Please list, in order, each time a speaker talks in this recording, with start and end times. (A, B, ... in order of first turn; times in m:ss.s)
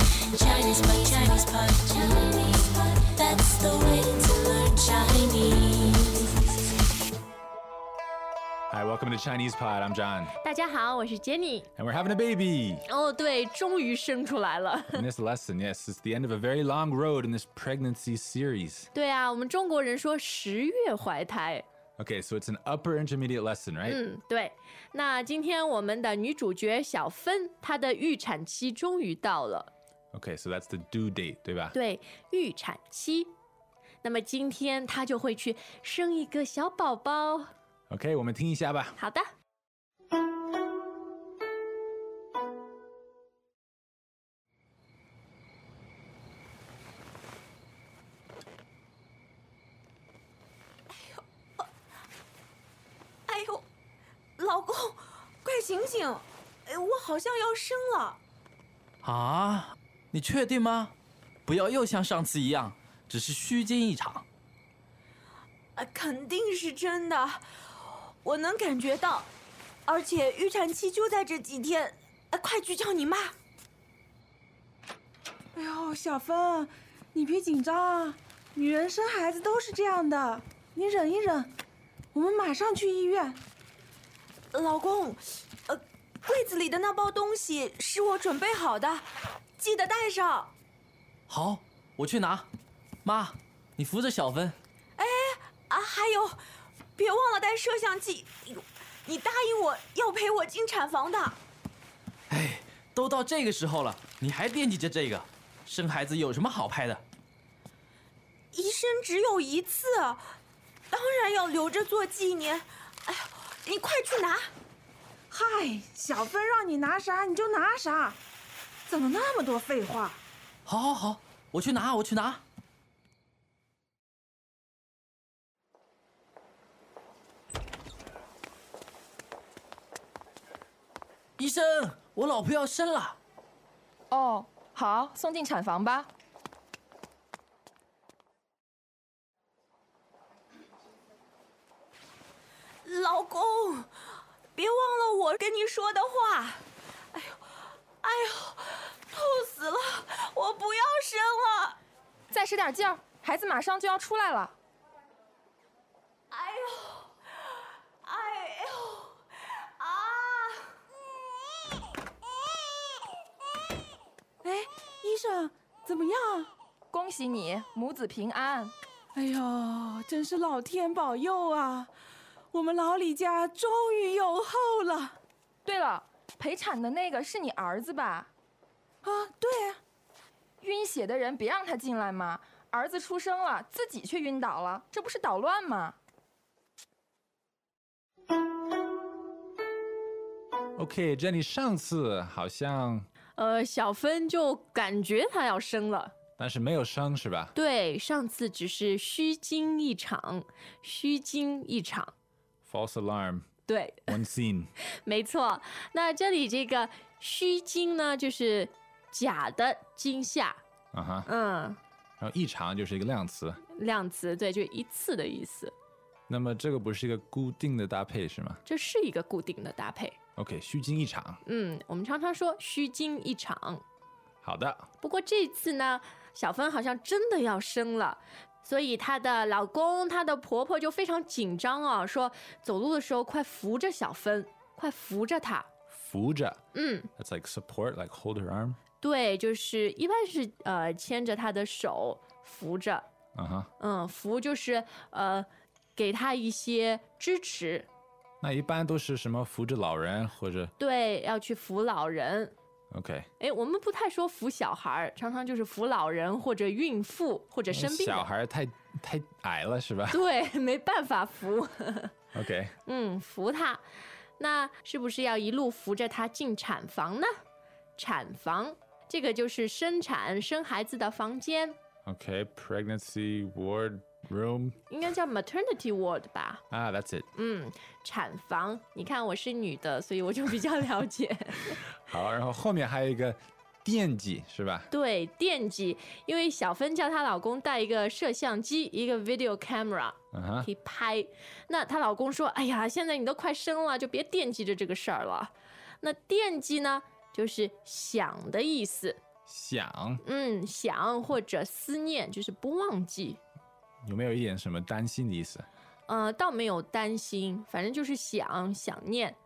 0:00.2-0:06.3 A
0:08.7-0:10.4 B
0:10.4-0:11.7 C
0:11.8-0:12.8 B
0:12.9-0:15.0 C
0:14.9-0:18.9 B
0:18.9-0:21.6 C
0:22.0-0:24.0 B
0:23.8-0:29.7 C
0:30.1-0:31.8 B
0:31.7-0:33.3 C
0:34.0-0:37.5 C
0:37.9-0:39.0 B
0:39.0-0:39.3 C
0:50.9-0:51.6 D
0:53.3-0:53.7 D
0:54.4-0:58.2 D
0:59.0-1:00.9 E
1:01.4-1:04.2 E
1:05.8-1:07.4 D
1:08.2-1:09.3 D
1:09.9-1:13.3 D
1:15.6-1:21.5 F
1:22.1-1:23.4 F
1:24.5-1:30.5 D
1:31.3-1:32.5 E
1:33.0-1:34.6 E
1:35.0-1:36.4 D
1:37.0-1:41.4 D
1:42.3-1:47.0 E
1:48.5-1:50.3 D
1:50.9-1:54.5 D
1:55.3-1:58.2 F
1:58.9-2:00.2 F
2:00.6-2:02.4 E
2:11.4-2:13.2 E
2:14.1-2:16.1 G
2:22.8-2:23.9 D
2:24.6-2:27.4 D
2:28.0-2:31.8 D
2:32.3-2:34.6 G
2:36.3-2:37.1 D
2:38.0-2:39.2 D
2:39.8-2:40.8 D
2:44.4-2:46.5 F
2:46.9-2:48.7 G
2:49.2-2:51.9 F
2:52.5-2:55.2 F
2:55.6-2:58.3 G
2:59.0-2:59.8 F
3:00.6-3:06.0 G
3:10.8-3:13.1 B
3:13.4-3:16.1 C
3:16.4-3:17.5 B
3:17.6-3:22.1 C
3:22.7-3:23.4 B
3:23.7-3:24.2 C
3:24.1-3:24.7 B
3:25.0-3:30.6 C
3:30.9-3:31.3 B
3:31.3-3:31.8 C
3:32.2-3:33.6 B
3:33.7-3:35.7 C
3:36.3-3:38.6 B
3:38.7-3:40.2 C
3:40.4-3:41.4 B
3:41.4-3:43.8 C
3:44.4-3:44.9 B
3:45.0-3:55.7 C
3:55.9-3:56.6 B
3:56.7-3:57.1 C
3:57.2-3:58.8 B
3:59.0-4:03.1 C
4:03.4-4:03.7 B
4:03.8-4:07.9 C
4:08.4-4:10.7 B
4:10.8-4:12.5 C
4:12.9-4:13.3 B
4:13.4-4:18.3 C
4:17.7-4:20.2 B
4:20.1-4:22.1 C
4:22.3-4:22.7 B
4:22.9-4:23.8 C
4:24.4-4:27.3 C
4:28.0-4:31.8 C
4:32.1-4:34.8 B
4:34.9-4:36.6 C
4:36.7-4:37.3 B
4:37.4-4:41.8 C
4:42.1-4:44.9 B
4:44.9-4:59.2 C
4:50.3-4:50.7 B
4:59.4-5:00.2 B
5:00.2-5:03.4 C
5:04.0-5:05.7 B
5:06.1-5:09.4 C